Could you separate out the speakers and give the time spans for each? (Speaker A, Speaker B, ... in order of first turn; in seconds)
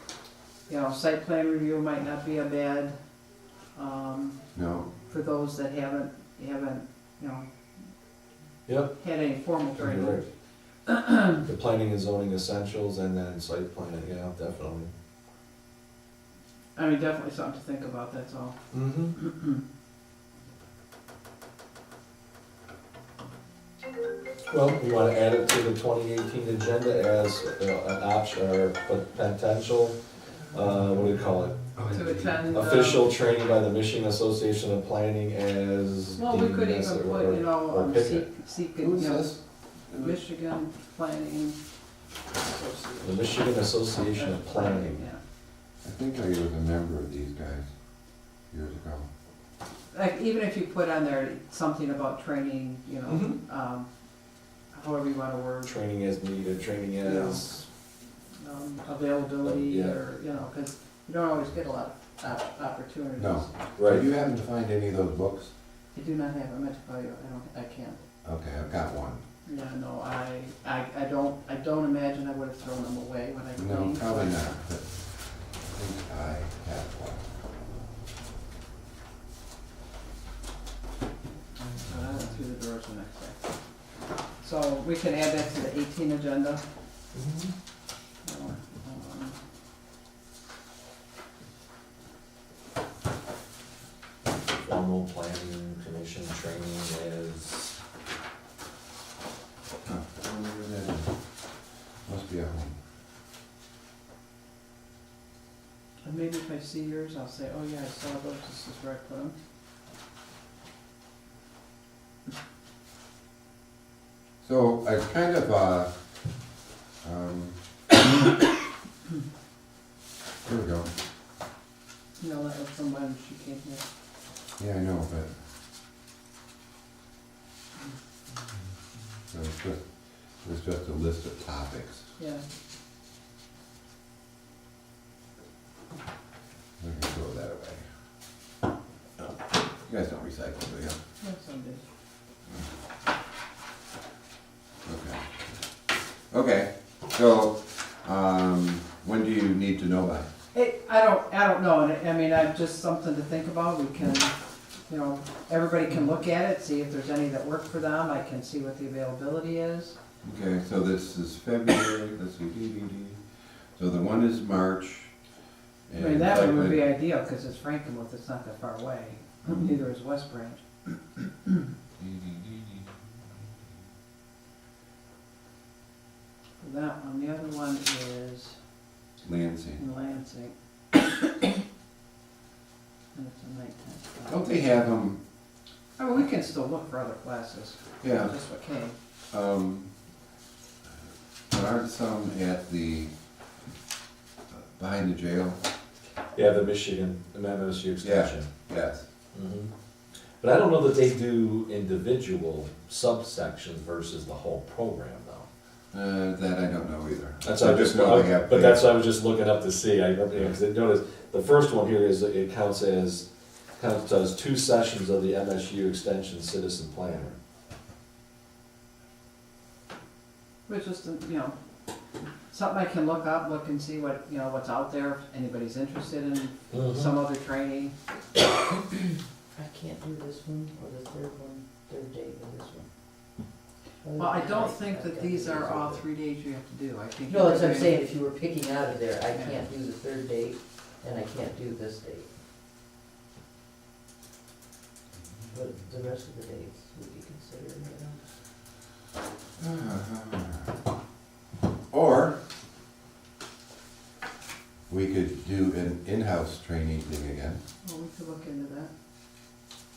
Speaker A: 0.7-3.0, 3.8-4.4, 5.0-7.5, 9.0-10.3, 10.9-11.4, 16.8-18.6, 19.2-19.6, 31.9-33.1, 36.2-39.4, 40.0-41.6, 42.4-43.3, 44.2-45.2, 49.9-53.9, 54.7-55.7, 57.0-57.5, 58.4-63.5, 65.9-68.0, 69.5-74.3, 81.6-83.5, 84.4-86.6, 88.2-89.4, 106.0-109.3, 122.2-123.8, 132.2-132.4, 141.2-141.8, 150.5-154.3, 154.9-160.0, 166.0-170.6, 171.2-171.5, 176.6-178.6, 179.8-181.5, 183.1-184.6, 186.0-188.9, 220.7-221.6, 222.5-227.9, 234.2-238.0, 239.3-239.6, 257.8-258.9
Speaker B: 4.5-4.9, 38.8-40.2, 45.8-47.7, 48.5-49.1, 63.2-65.5, 68.2-69.2, 73.6-77.2, 99.8-101.1, 102.1-102.8, 114.4-115.9, 117.0-117.6, 120.5-120.9, 124.6-125.3, 129.3-129.8, 130.4-132.1, 136.8-137.8, 139.2-141.0, 144.8-145.4, 146.3-150.3, 160.2-163.2, 163.8-165.1, 165.9-166.8, 172.0-172.8, 179.2-179.8, 184.3-185.2, 188.0-188.3, 189.3-189.9, 191.5-193.1, 194.5-195.6, 198.0-199.0, 205.9-208.8, 249.6-250.7, 251.9-252.4, 254.9-257.6
Speaker C: 8.7-9.0, 9.8-10.2, 11.3-14.9, 18.7-19.2, 24.5-30.0, 30.5-31.8, 32.5-38.3, 43.0-45.0, 53.1-53.4, 55.6-57.6, 59.4-60.0, 63.8-64.1, 87.1-87.5, 94.5-97.8, 196.3-198.5, 199.3-199.7, 200.4-205.5, 207.4-217.4, 226.7-227.2
Speaker D: 229.5-232.9, 234.0-236.1, 237.3-242.3, 245.5-248.2